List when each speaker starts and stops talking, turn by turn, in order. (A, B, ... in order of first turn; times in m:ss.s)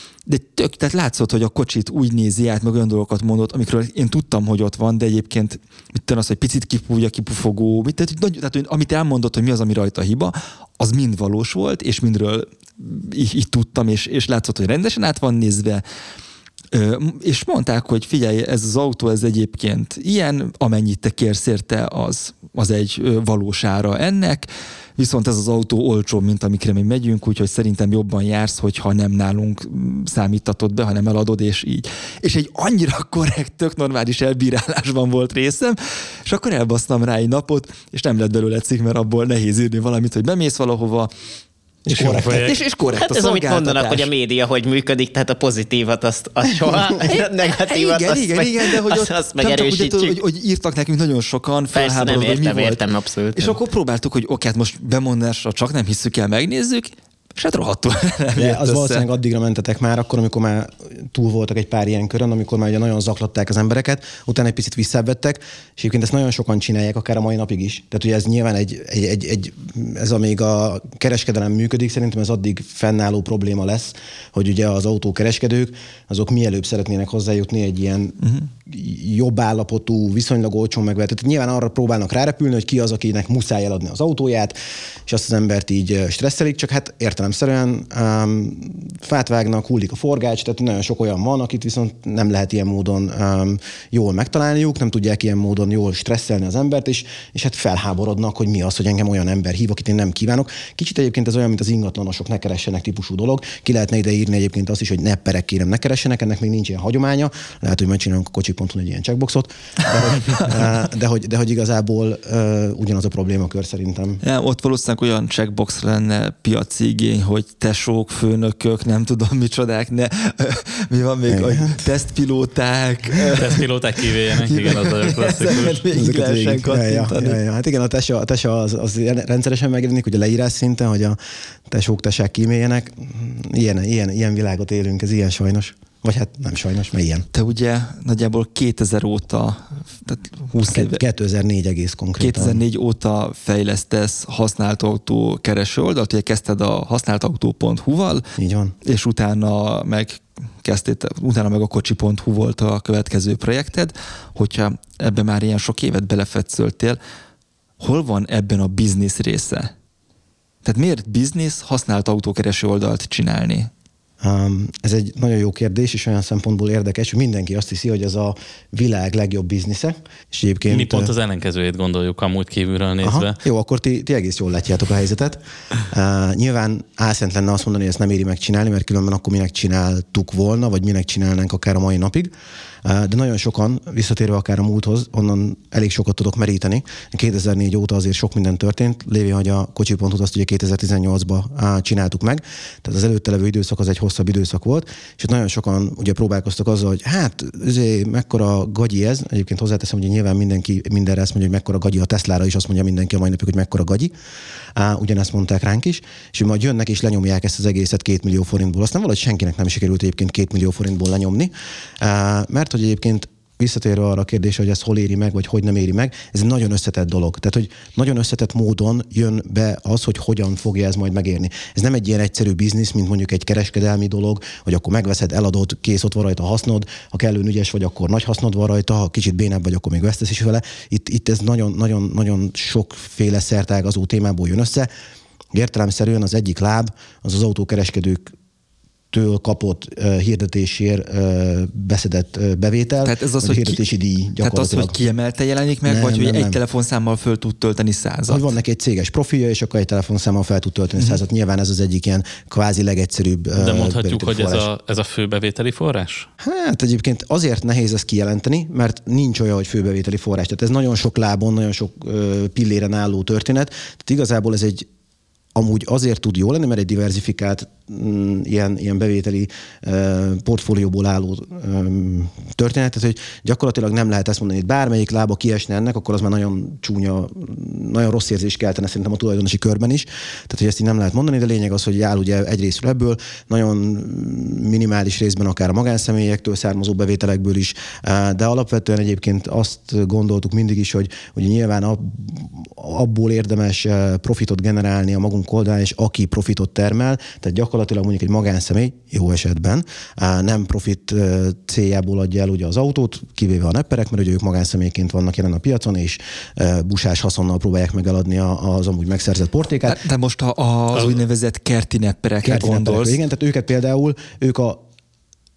0:00.3-0:15.8 A
0:16.7-0:41.1 A
0:41.8-0:42.5 B
0:42.0-0:44.1 A
0:42.0-0:42.4 C
0:42.9-0:50.2 D
0:47.1-0:52.8 A
0:51.7-0:53.6 D
0:53.4-0:59.0 A
0:58.4-1:54.2 B
1:18.2-1:18.5 A
1:54.2-2:03.6 A
2:01.3-2:01.8 B
2:03.4-2:05.8 C
2:04.4-2:07.4 A
2:05.9-2:17.3 B
2:17.3-2:21.0 A
2:20.6-2:22.6 B
2:22.2-2:28.3 A
2:28.4-2:28.7 B
2:28.8-2:37.0 A
2:37.8-2:39.7 A
2:40.6-2:43.7 A
2:44.2-2:51.1 B
2:50.7-2:53.4 C
2:53.0-3:02.3 B
3:02.8-3:24.1 B
3:24.7-3:54.9 B
3:55.5-3:58.3 B
3:59.1-4:05.0 B
4:03.0-4:03.8 A
4:04.4-4:08.4 A
4:05.8-4:06.6 B
4:08.3-4:14.7 B
4:13.6-4:16.3 C
4:16.4-4:24.8 B
4:25.5-5:10.0 B
5:09.8-5:13.2 A
5:12.4-5:14.8 B